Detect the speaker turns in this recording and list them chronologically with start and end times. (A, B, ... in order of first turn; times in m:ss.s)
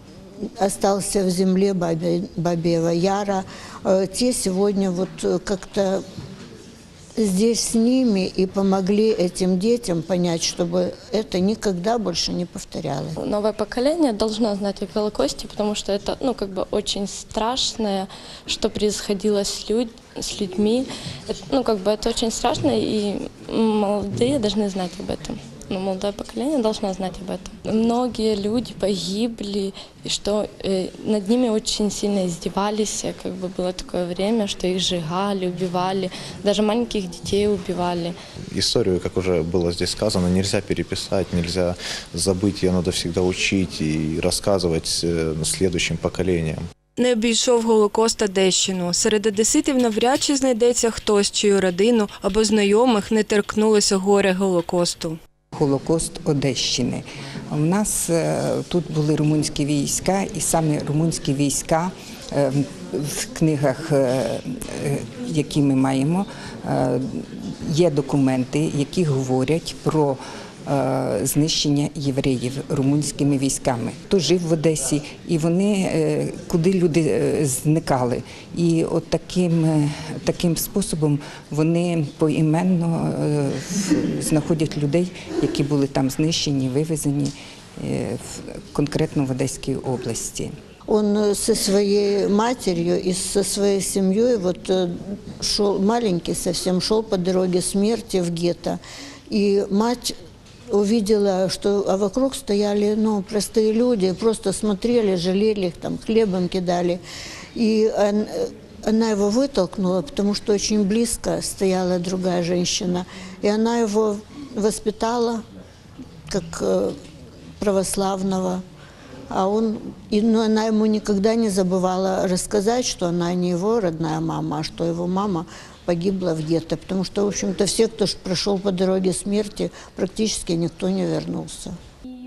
0:00.6-0:06.0 A
0:07.2-0:13.2 A
0:13.2-0:38.1 B
0:38.5-0:46.6 C
0:47.0-0:55.2 D
0:55.5-1:30.5 E
1:30.9-1:38.8 A
1:39.3-1:40.1 A
1:40.7-1:47.0 A
1:47.6-1:55.4 A
1:56.3-1:57.0 A
1:57.6-1:58.6 A
1:59.3-2:11.8 A